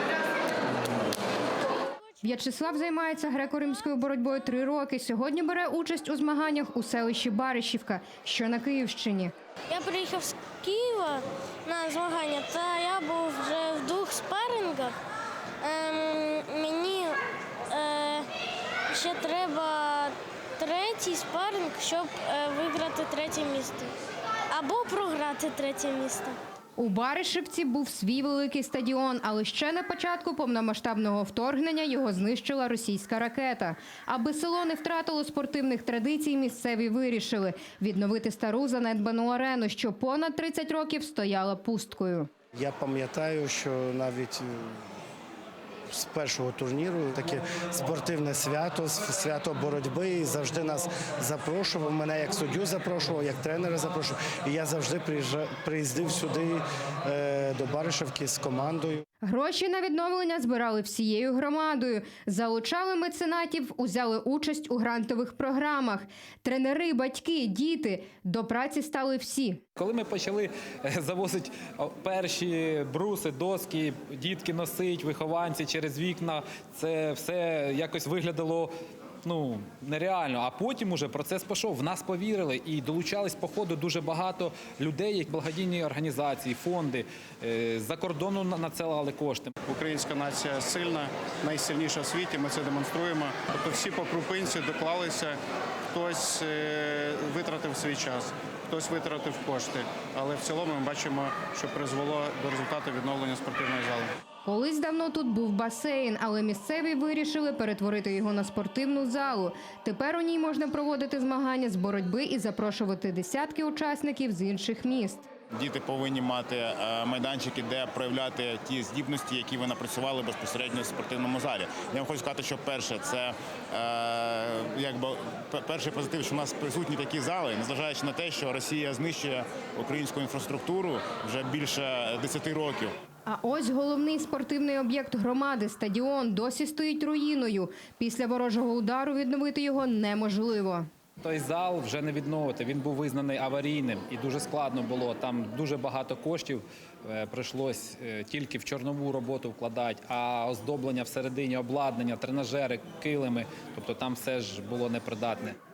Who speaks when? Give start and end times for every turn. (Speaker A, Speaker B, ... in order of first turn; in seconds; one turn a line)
Speaker A: 2.2-9.3
Speaker B: 9.7-14.9
Speaker B: 15.6-18.3
Speaker B: 18.9-23.9
Speaker B: 24.5-26.4
Speaker A: 26.8-42.3
Speaker C: 42.6-44.5
Speaker C: 45.9-59.0
Speaker A: 59.2-69.6
Speaker D: 69.8-78.7
Speaker D: 79.2-89.5
Speaker E: 89.7-95.4
Speaker E: 95.9-104.1
Speaker A: 104.5-115.3
Speaker F: 115.5-132.9
Speaker A: 133.3-140.9
Speaker D: 141.2-155.6